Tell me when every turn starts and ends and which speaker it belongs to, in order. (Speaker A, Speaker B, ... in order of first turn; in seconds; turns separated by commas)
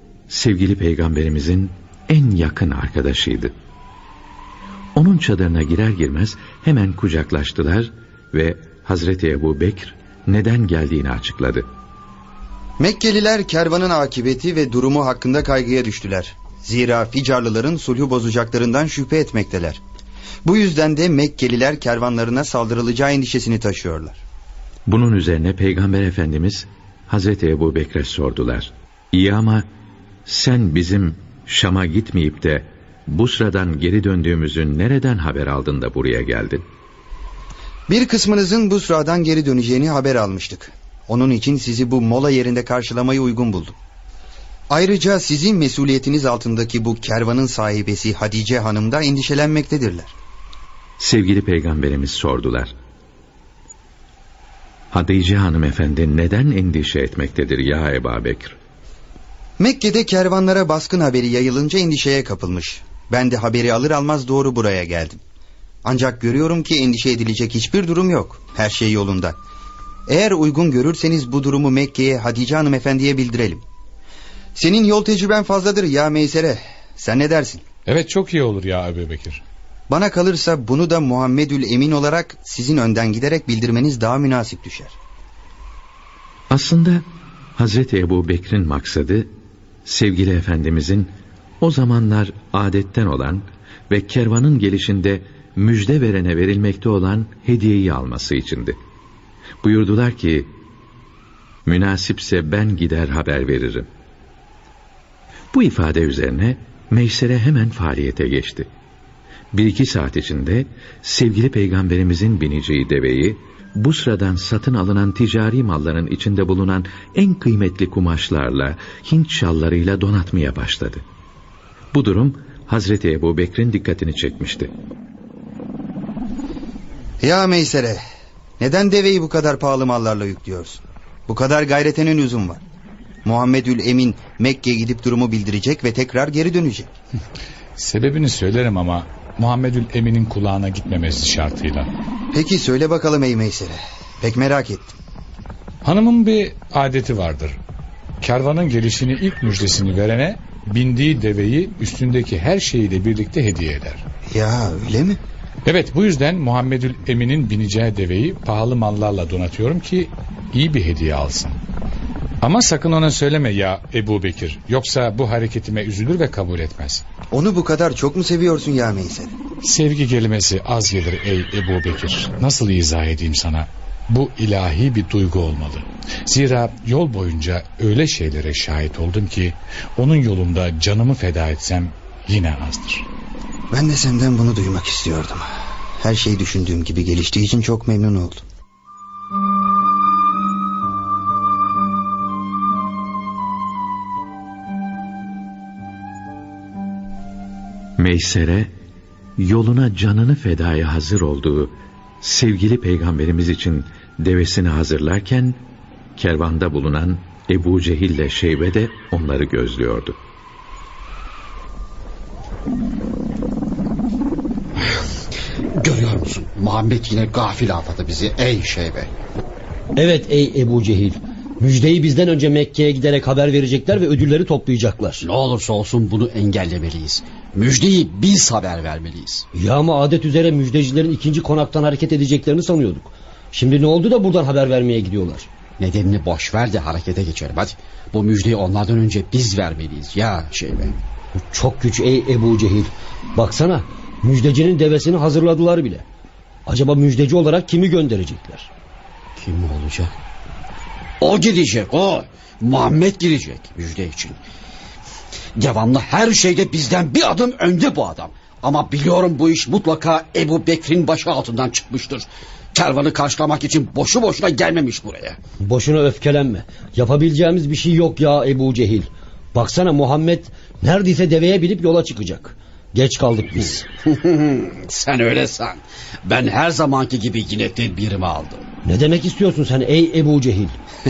Speaker A: 0.3-3.5, Speaker A: 4.9-11.7, Speaker B: 12.8-19.8, Speaker B: 20.4-24.2, Speaker A: 24.9-29.7, Speaker A: 30.2-36.6, Speaker B: 37.9-43.7, Speaker B: 44.7-50.1, Speaker A: 51.0-52.7, Speaker A: 54.9-58.6, Speaker B: 59.6-65.2, Speaker B: 65.8-69.4, Speaker B: 70.1-73.6, Speaker B: 74.5-77.6, Speaker C: 77.9-79.4, Speaker B: 79.9-84.9, Speaker A: 86.5-87.0, Speaker A: 87.5-89.3, Speaker A: 89.8-98.8, Speaker A: 99.6-100.5, Speaker A: 101.7-103.9, Speaker A: 105.5-108.7, Speaker A: 109.5-121.0, Speaker A: 121.9-124.7, Speaker B: 127.2-128.0, Speaker B: 128.6-132.6, Speaker B: 133.2-136.9, Speaker C: 137.8-141.9, Speaker B: 142.3-144.9, Speaker C: 145.8-147.6, Speaker C: 148.2-154.0, Speaker B: 154.3-155.2, Speaker C: 155.7-161.6, Speaker C: 162.4-167.0, Speaker B: 167.3-169.3, Speaker C: 169.6-183.1, Speaker B: 183.7-185.4, Speaker B: 186.0-188.4, Speaker A: 198.0-198.7, Speaker A: 199.4-205.6, Speaker A: 206.2-210.2, Speaker D: 215.8-219.1, Speaker E: 219.9-225.3, Speaker D: 225.2-229.4, Speaker E: 229.5-235.5, Speaker D: 235.8-241.0, Speaker E: 241.5-246.1, Speaker E: 246.7-248.7, Speaker D: 249.3-250.1, Speaker D: 251.2-254.4, Speaker D: 255.6-265.4, Speaker E: 265.6-273.9, Speaker D: 274.1-278.6, Speaker E: 278.8-280.8